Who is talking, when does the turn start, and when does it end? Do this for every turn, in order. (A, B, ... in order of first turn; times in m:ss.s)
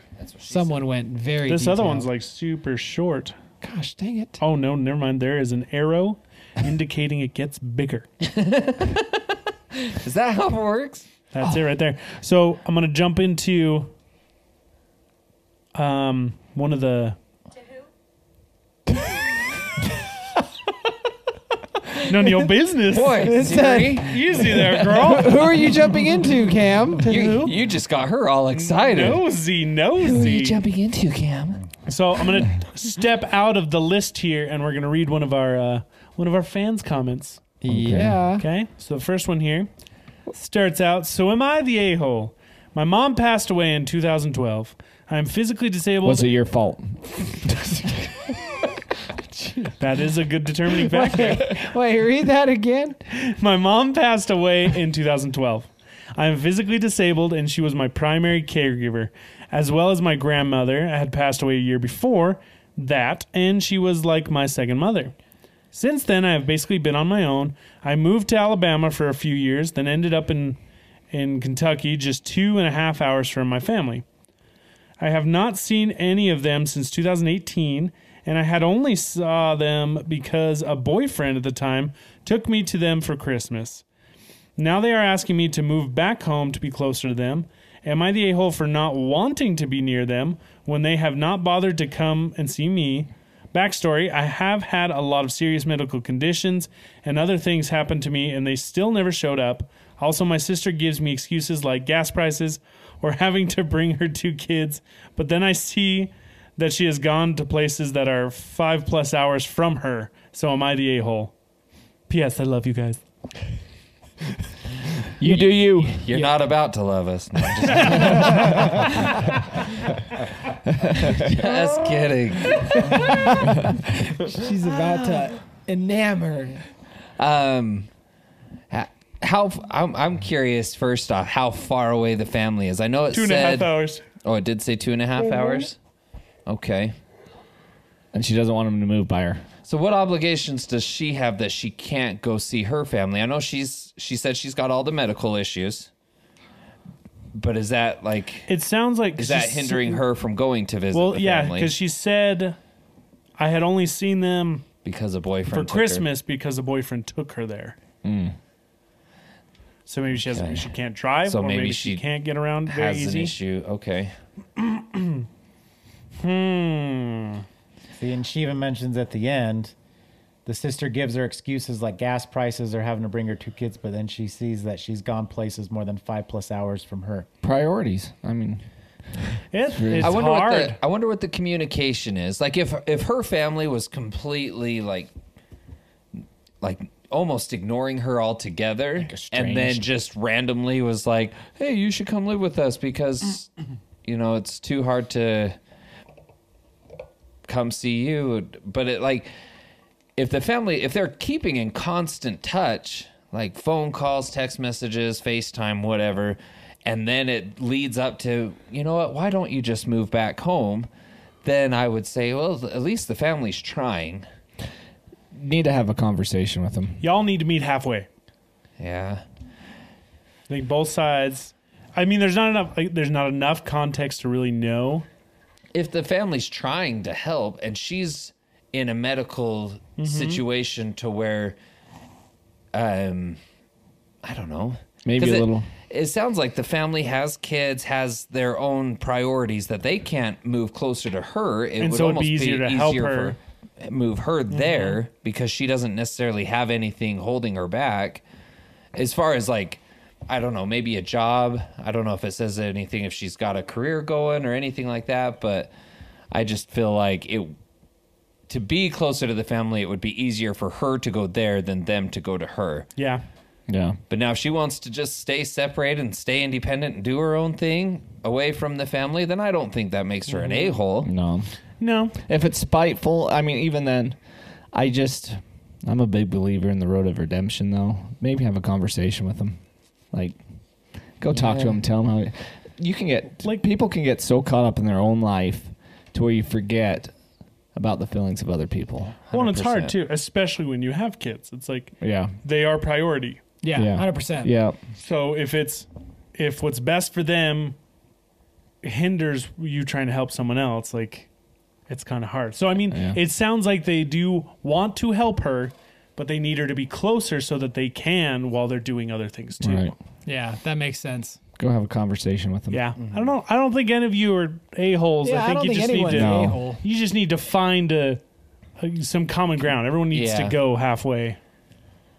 0:00.2-0:00.8 A
0:00.5-0:02.1 B
0:01.4-0:03.3 C
0:03.6-0:04.4 B
0:04.4-0:08.1 C
0:08.2-0:09.2 A
0:09.8-0:11.1 A
0:11.3-0:13.9 C
0:15.7-0:17.2 C
0:22.0-0:25.6 C
0:22.9-0:24.7 A
0:23.2-0:24.1 B
0:25.0-0:27.3 B
0:27.0-0:27.6 C
0:27.0-0:29.2 A
0:28.5-0:30.6 C
0:30.0-0:31.6 A
0:31.9-0:37.5 C
0:37.6-0:38.4 B
0:37.7-0:38.2 D
0:38.4-0:39.7 C
0:40.3-0:46.3 C
0:46.0-0:48.3 D
0:49.4-0:49.7 B
0:49.8-0:51.6 C
0:50.9-0:53.0 B
0:53.1-1:05.1 C
1:05.7-1:10.6 C
1:11.1-1:14.0 C
1:15.0-1:23.8 C
1:24.6-1:51.3 C
1:52.1-1:53.0 C
1:55.2-1:56.0 D
1:55.6-1:59.3 A
1:57.7-1:58.6 C
2:00.8-2:01.4 D
2:01.1-2:03.0 A
2:02.7-2:06.6 B
2:07.2-2:07.9 A
2:08.7-2:13.7 A
2:13.1-2:14.0 C
2:14.2-2:15.8 A
2:16.4-2:16.9 A
2:18.1-2:19.4 D
2:19.6-2:25.9 A
2:27.3-2:28.5 A
2:28.5-2:30.0 C
2:29.2-2:31.7 A
2:30.9-2:32.6 C
2:33.4-2:34.7 C
2:34.8-2:36.0 A
2:35.5-2:37.8 C
2:38.0-2:38.4 D
2:39.8-2:43.3 C
2:40.2-2:40.7 A
2:41.2-2:42.0 A
2:42.6-2:44.1 A
2:44.6-2:45.2 C
2:46.2-2:47.4 C
2:48.0-2:49.7 E
2:50.4-2:57.3 E
2:57.4-2:58.6 D
2:59.5-3:00.8 C
2:59.7-3:00.2 D
3:00.0-3:05.1 A
3:06.6-3:13.5 A
3:09.0-3:09.9 D
3:14.0-3:15.6 A
3:17.4-3:19.3 A
3:20.2-3:30.9 A
3:31.4-3:34.2 A
3:35.3-3:37.0 D
3:37.0-3:38.1 C
3:38.8-3:39.2 A
3:40.5-3:45.0 C
3:45.7-3:51.6 A
3:50.0-3:50.4 C
3:52.7-3:53.4 A
3:54.2-4:08.2 A
3:55.0-3:55.7 D
4:01.8-4:03.4 C
4:04.5-4:05.0 C
4:08.9-4:15.7 A
4:16.3-4:17.6 A
4:18.5-4:22.9 A
4:23.0-4:23.2 C
4:23.7-4:24.0 D
4:24.1-4:31.1 A
4:31.0-4:31.5 D
4:31.8-4:32.2 C
4:32.2-4:34.2 D
4:34.7-4:39.6 D
4:40.1-4:40.4 D
4:41.2-4:47.1 D
4:41.4-4:41.7 A
4:47.7-4:49.2 D
4:49.2-4:50.0 A
4:49.3-4:53.4 C
4:52.0-4:52.3 D
4:53.6-4:54.5 B
4:53.7-4:54.8 D
4:55.0-4:57.7 C
4:58.8-5:01.3 C
5:01.9-5:09.9 C
5:02.9-5:03.2 D
5:09.6-5:09.9 D
5:10.2-5:11.4 B
5:11.6-5:12.9 D
5:12.7-5:18.2 C
5:15.2-5:16.8 B
5:16.1-5:16.6 D
5:18.8-5:21.4 C
5:20.1-5:20.6 A